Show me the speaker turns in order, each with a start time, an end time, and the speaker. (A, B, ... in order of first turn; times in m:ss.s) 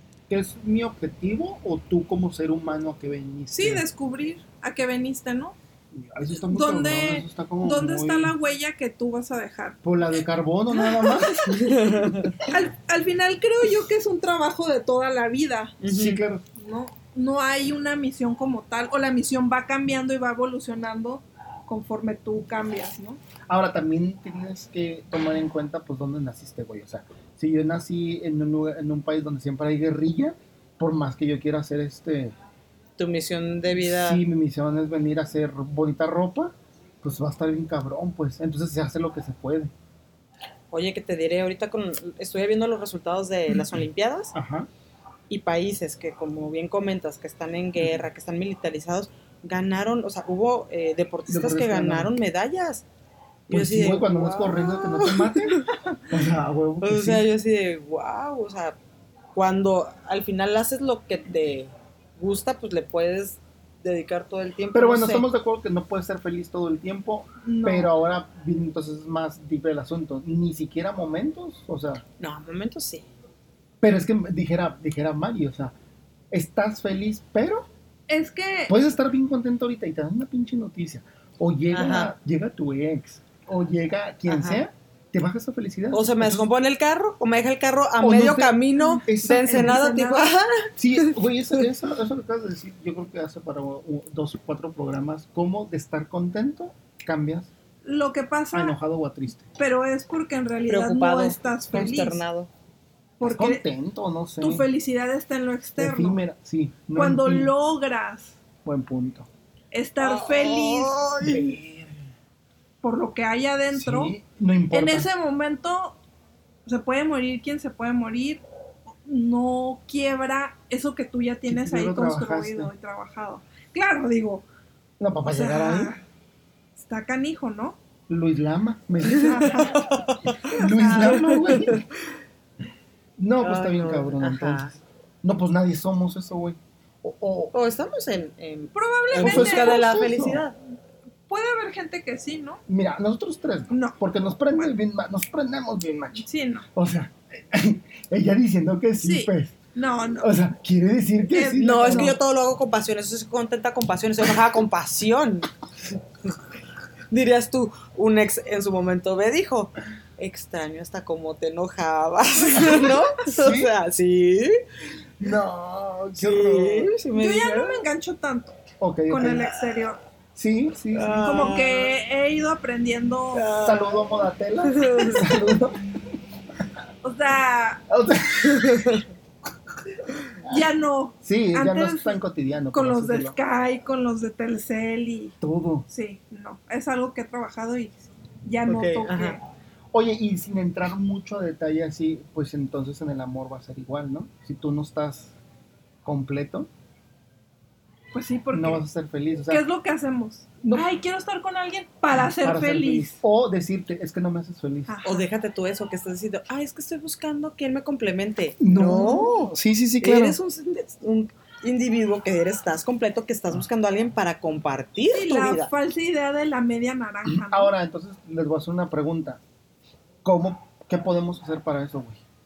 0:00.3-0:03.9 A
0:03.5-0:05.6 B
0:05.9-0:08.3 A
0:06.5-0:09.8 B
0:09.8-0:12.4 A
0:10.8-0:11.4 B
0:11.5-0:12.4 C
0:12.5-0:15.8 B
0:15.8-0:16.2 C
0:15.9-0:16.4 A
0:16.6-0:23.2 B
0:23.5-0:32.4 A
0:33.0-0:34.2 C
0:33.8-0:39.7 A
0:40.7-0:44.3 C
0:44.3-0:44.7 A
0:45.3-0:52.8 C
0:51.3-0:52.1 A
0:53.5-0:55.7 C
0:53.5-0:57.2 A
0:56.8-0:58.8 C
0:59.4-1:05.3 C
1:04.7-1:12.0 A
1:07.4-1:07.9 B
1:12.2-1:13.1 C
1:13.8-1:15.7 A
1:16.3-1:17.7 A
1:18.1-1:18.7 B
1:18.7-1:26.5 A
1:21.7-1:22.1 C
1:24.3-1:24.6 C
1:25.9-1:31.2 C
1:28.0-1:29.8 A
1:28.8-1:30.3 B
1:30.8-1:37.5 A
1:37.8-1:38.8 B
1:38.5-1:39.5 A
1:39.6-1:42.2 B
1:40.7-1:42.5 C
1:43.2-1:43.6 B
1:43.2-1:44.7 A
1:44.4-1:46.2 B
1:45.8-1:47.5 A
1:47.0-1:48.4 B
1:48.6-1:49.3 A
1:49.7-1:51.2 B
1:50.0-1:51.5 C
1:51.2-1:52.0 A
1:52.8-1:54.1 B
1:53.7-1:55.1 A
1:54.7-1:56.0 B
1:56.7-1:58.4 B
1:59.0-2:04.4 B
2:01.5-2:02.7 A
2:05.0-2:05.9 A
2:05.3-2:06.0 B
2:06.8-2:07.8 B
2:08.1-2:09.8 A
2:09.2-2:09.8 B
2:09.5-2:10.4 C
2:10.5-2:11.8 A
2:10.5-2:11.6 B
2:11.0-2:11.8 C
2:13.2-2:17.5 A
2:13.4-2:14.8 C
2:17.5-2:20.6 C
2:18.7-2:19.9 B
2:19.2-2:20.4 A
2:21.3-2:22.6 B
2:22.7-2:29.6 A
2:23.7-2:24.0 B
2:26.2-2:26.7 B
2:29.0-2:30.3 B
2:30.2-2:32.2 A
2:31.3-2:32.2 B
2:31.6-2:35.5 C
2:37.1-2:44.6 C
2:43.2-2:43.7 A
2:45.2-2:46.9 A
2:46.2-2:47.8 C
2:47.2-2:50.0 B
2:48.8-2:49.5 A
2:50.4-2:51.5 A
2:50.9-2:51.9 C
2:51.2-2:53.5 B
2:53.3-2:54.0 C
2:53.6-2:55.8 A
2:54.6-2:55.3 C
2:57.0-2:57.8 B
2:57.9-2:59.0 A
2:58.5-2:59.0 C
3:00.4-3:02.2 B
3:01.2-3:03.4 A
3:02.7-3:05.4 B
3:05.4-3:05.9 A
3:05.9-3:09.4 B
3:08.7-3:09.0 A
3:09.0-3:09.4 C
3:09.9-3:15.4 A
3:16.0-3:16.7 A
3:18.1-3:18.8 B
3:18.5-3:19.6 A
3:19.5-3:23.2 B
3:22.1-3:25.0 A
3:24.9-3:25.2 B
3:25.0-3:35.7 C
3:28.6-3:30.4 A
3:35.1-3:37.7 B
3:37.3-3:39.4 A
3:40.2-3:42.2 A